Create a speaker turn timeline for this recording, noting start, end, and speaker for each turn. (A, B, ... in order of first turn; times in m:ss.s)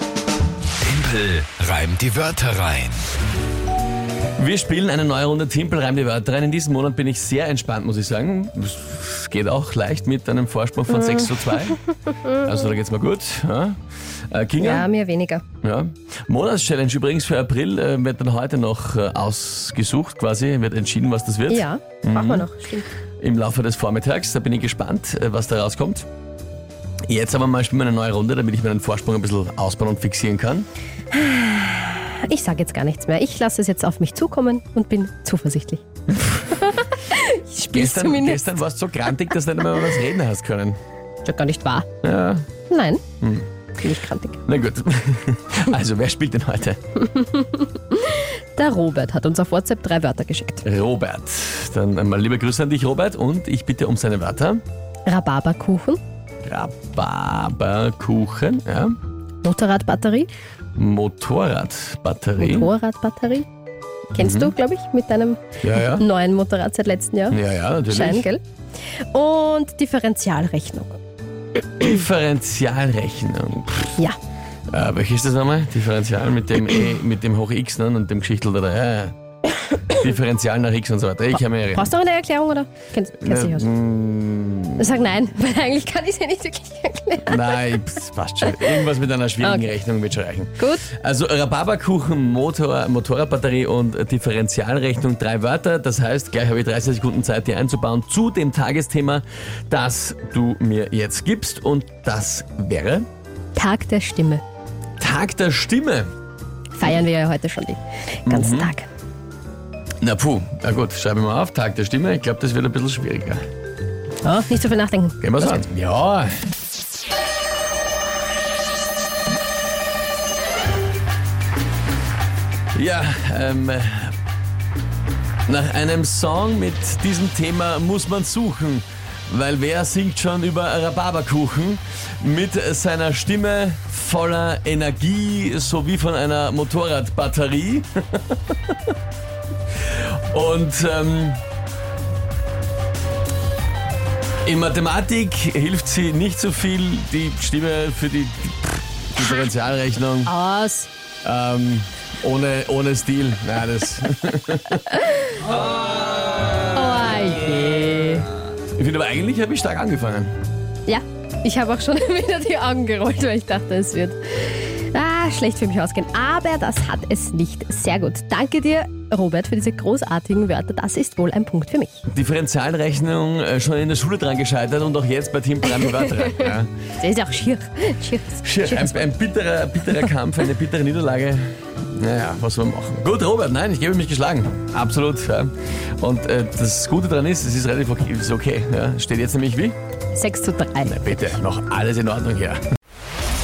0:00.8-0:03.0 A
0:04.4-0:13.8 B
0:11.0-0:12.4 C
0:14.3-0:14.9 B
0:14.6-0:15.4 C
0:15.6-0:22.5 B
0:21.5-0:22.9 C
0:23.2-0:26.1 B
0:27.1-0:30.7 B
0:31.1-0:38.6 C
0:37.7-0:40.8 B
0:41.2-0:41.9 C
0:42.0-0:42.4 B
0:42.7-0:43.0 C
0:43.2-0:43.4 B
0:43.8-0:44.4 C
0:44.4-0:46.8 B
0:47.0-0:50.6 C
0:50.6-0:54.6 B
0:55.0-0:56.0 C
0:56.4-0:59.0 B
0:59.4-1:00.3 C
1:00.8-1:02.7 B
1:02.4-1:03.5 C
1:04.1-1:08.4 C
1:04.2-1:04.5 B
1:05.6-1:06.0 B
1:07.3-1:08.3 B
1:09.1-1:11.0 C
1:11.8-1:14.0 B
1:14.7-1:19.2 B
1:19.9-1:21.9 B
1:21.7-1:23.7 C
1:23.2-1:25.0 B
1:24.8-1:27.8 C
1:27.2-1:43.1 B
1:28.5-1:28.8 C
1:29.4-1:29.7 C
1:30.6-1:30.8 C
1:43.5-1:44.4 C
1:45.0-1:46.1 B
1:46.7-1:48.9 C
1:48.2-1:48.7 B
1:50.0-1:53.4 B
1:54.2-1:55.3 C
1:55.2-1:56.3 B
2:02.7-2:04.1 B
2:05.5-2:18.9 B
2:19.8-2:21.4 B
2:24.4-2:30.3 B
2:30.2-2:30.9 C
2:31.2-2:34.9 B
2:36.7-2:38.3 C
2:38.7-2:40.3 B
2:40.9-2:52.0 C
2:52.1-2:56.7 B
2:55.8-2:59.1 C
2:58.4-3:09.8 B
3:10.1-3:11.0 C
3:10.8-3:12.6 B